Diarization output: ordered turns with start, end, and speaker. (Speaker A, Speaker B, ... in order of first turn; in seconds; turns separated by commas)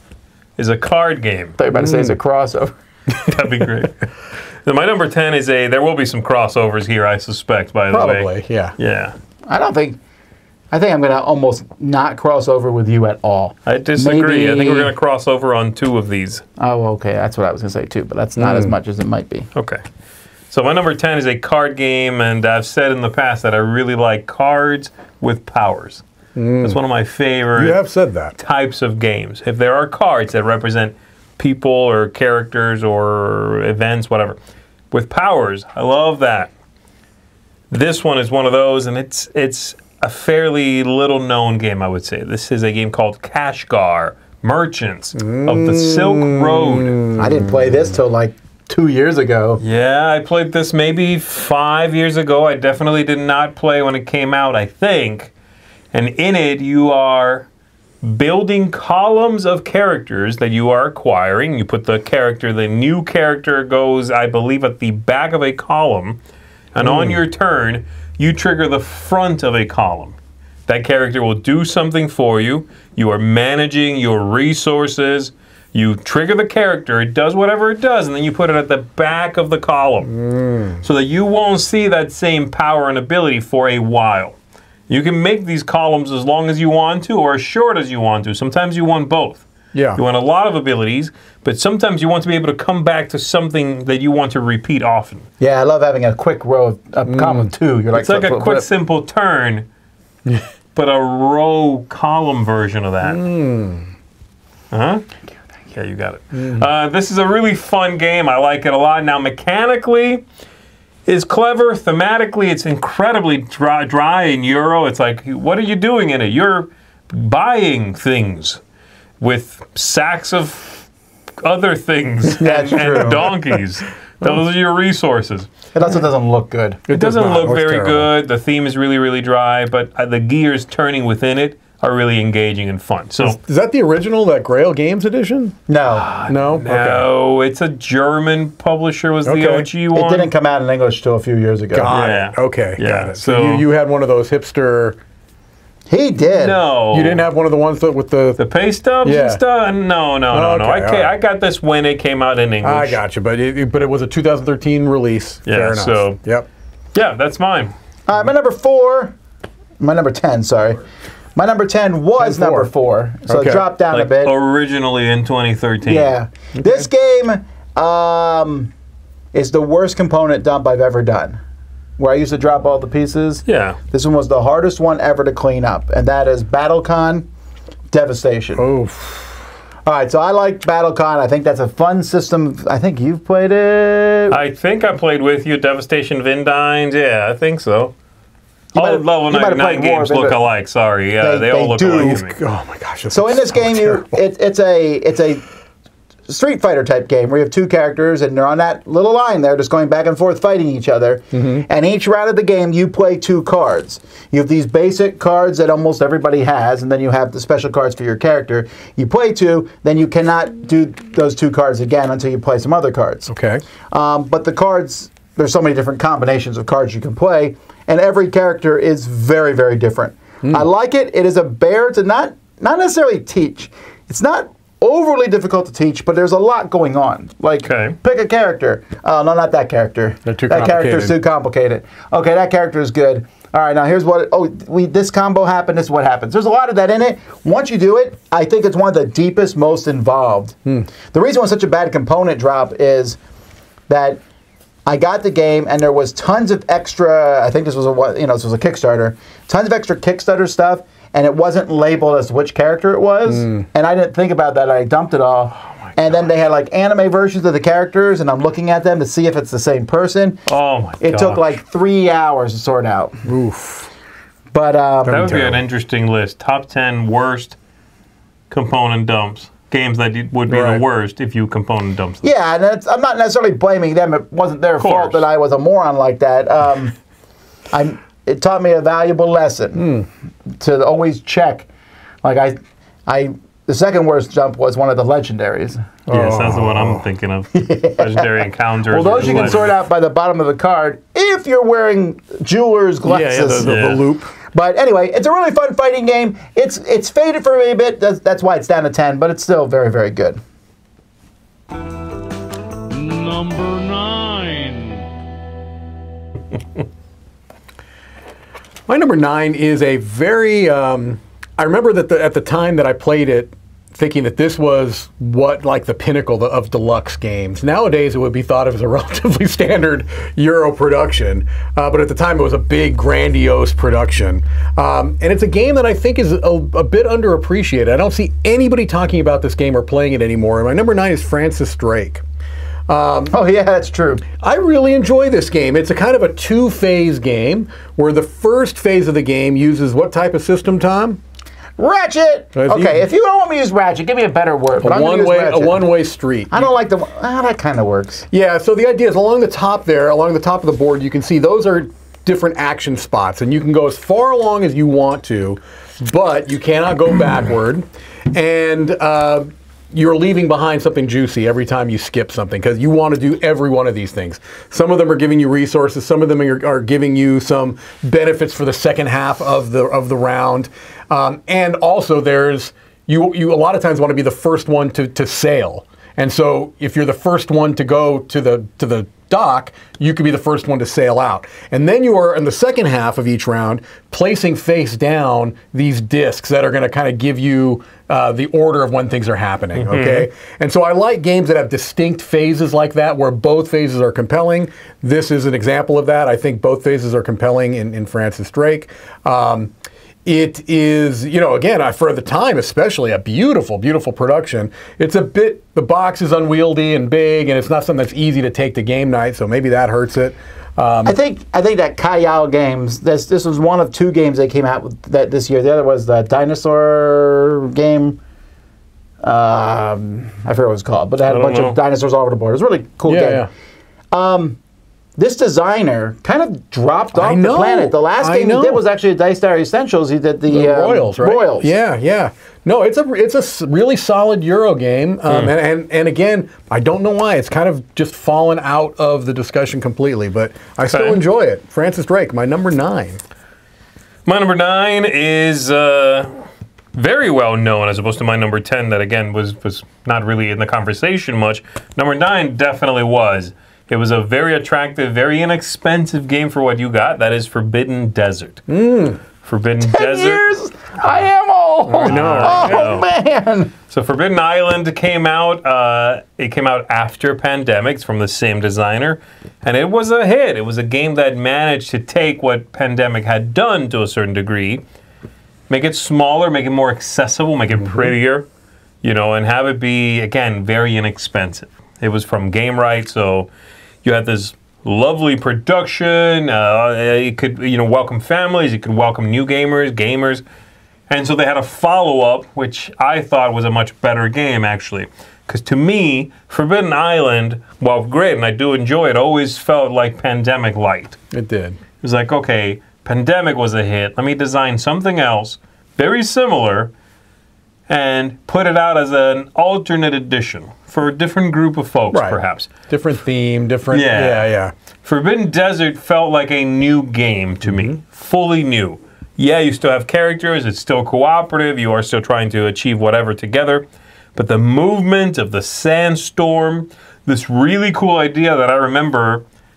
Speaker A: 0.6-1.6, Speaker B: 1.6-2.8, Speaker C: 1.7-2.1, Speaker A: 3.2-4.1, Speaker A: 4.6-9.1, Speaker C: 7.9-8.8, Speaker B: 9.5-10.0, Speaker B: 10.7-14.9, Speaker A: 13.7-16.4, Speaker B: 16.6-19.5, Speaker C: 18.4-18.7, Speaker A: 19.5-19.8, Speaker A: 20.5-26.0, Speaker C: 26.4-26.8, Speaker A: 26.6-27.8, Speaker C: 27.5-28.3, Speaker A: 28.4-34.4, Speaker A: 34.9-36.5, Speaker A: 37.7-47.0, Speaker C: 45.1-47.8, Speaker B: 47.1-49.6, Speaker A: 49.6-55.3, Speaker A: 55.9-57.5, Speaker A: 58.0-66.2, Speaker A: 66.7-70.1, Speaker C: 66.8-67.2, Speaker A: 70.7-80.1, Speaker C: 80.1-80.8, Speaker A: 80.8-84.3, Speaker A: 84.9-95.2, Speaker C: 89.7-90.0, Speaker B: 95.4-98.7, Speaker C: 97.1-97.5, Speaker A: 97.9-99.7, Speaker A: 100.7-103.2, Speaker C: 103.0-103.9, Speaker A: 104.7-105.0, Speaker A: 105.7-110.2, Speaker C: 106.4-106.6, Speaker A: 111.0-118.6, Speaker A: 119.2-120.8, Speaker A: 121.4-125.5, Speaker B: 122.4-123.3, Speaker B: 125.7-126.8, Speaker C: 126.9-128.1, Speaker A: 126.9-133.4, Speaker C: 133.2-135.6, Speaker B: 135.7-136.1, Speaker A: 135.9-140.3, Speaker C: 136.2-137.1, Speaker C: 139.2-139.7, Speaker B: 139.9-141.9, Speaker C: 141.7-145.0, Speaker A: 141.9-143.6, Speaker B: 145.9-146.6, Speaker A: 146.2-147.2, Speaker C: 146.9-148.4, Speaker A: 148.4-153.0, Speaker C: 149.0-149.4, Speaker C: 150.3-151.1, Speaker C: 152.6-156.5, Speaker A: 155.4-156.2, Speaker A: 156.9-157.7, Speaker B: 158.1-159.1, Speaker B: 159.8-160.8, Speaker B: 161.3-164.3, Speaker C: 162.2-162.7, Speaker C: 163.3-163.7, Speaker A: 163.9-166.1, Speaker B: 165.8-168.7, Speaker C: 166.6-166.8, Speaker B: 169.3-171.4, Speaker B: 172.0-177.3, Speaker A: 173.5-173.8, Speaker B: 177.9-178.7, Speaker C: 178.6-179.4, Speaker B: 179.8-184.4, Speaker A: 184.3-187.9, Speaker B: 188.7-190.4, Speaker A: 188.7-192.4, Speaker B: 191.2-192.2, Speaker C: 191.9-194.2, Speaker B: 193.1-195.4, Speaker B: 196.3-213.3, Speaker C: 201.3-201.7, Speaker C: 213.3-213.6, Speaker B: 213.9-243.2, Speaker A: 227.6-227.9, Speaker C: 230.2-231.2, Speaker B: 243.9-244.2, Speaker B: 244.8-260.4, Speaker C: 253.2-253.7, Speaker A: 260.5-261.4, Speaker B: 261.0-263.2, Speaker C: 263.2-263.9, Speaker B: 264.5-265.4, Speaker C: 265.1-265.6, Speaker A: 265.1-267.6, Speaker A: 268.5-272.2, Speaker C: 270.5-270.8, Speaker B: 272.2-276.9, Speaker A: 274.8-275.2, Speaker B: 277.7-279.9, Speaker C: 279.8-280.1, Speaker B: 280.6-281.7, Speaker B: 282.2-285.9, Speaker C: 286.1-287.0, Speaker A: 286.1-289.6, Speaker B: 287.5-293.8, Speaker C: 289.2-289.7, Speaker C: 293.0-294.3, Speaker A: 293.5-294.0, Speaker B: 294.5-300.4, Speaker D: 302.9-305.1, Speaker C: 308.9-332.2, Speaker C: 332.9-333.3, Speaker B: 333.3-334.2, Speaker C: 334.4-341.2, Speaker B: 341.8-345.9, Speaker C: 342.5-343.0, Speaker C: 344.8-346.7, Speaker B: 346.5-348.2, Speaker C: 348.3-399.7, Speaker A: 389.8-390.3, Speaker C: 400.2-411.2, Speaker B: 411.0-418.2, Speaker B: 419.2-423.5, Speaker A: 421.3-421.8, Speaker C: 423.1-423.5, Speaker B: 424.1-424.6, Speaker B: 425.2-431.7, Speaker C: 427.1-428.8, Speaker C: 430.5-443.2, Speaker A: 435.3-435.5, Speaker A: 440.9-441.2, Speaker A: 444.2-446.3, Speaker A: 446.9-458.6, Speaker C: 458.7-459.2, Speaker A: 459.4-460.4, Speaker B: 459.8-463.7, Speaker C: 461.9-462.9, Speaker A: 462.0-463.1, Speaker A: 463.9-474.8, Speaker A: 475.7-478.4, Speaker A: 479.0-483.5, Speaker A: 484.0-490.4, Speaker A: 491.1-501.2, Speaker C: 501.3-501.8, Speaker A: 502.0-506.9, Speaker A: 507.9-512.7, Speaker C: 512.1-514.7, Speaker A: 513.9-514.5, Speaker A: 515.0-529.4, Speaker C: 517.6-518.0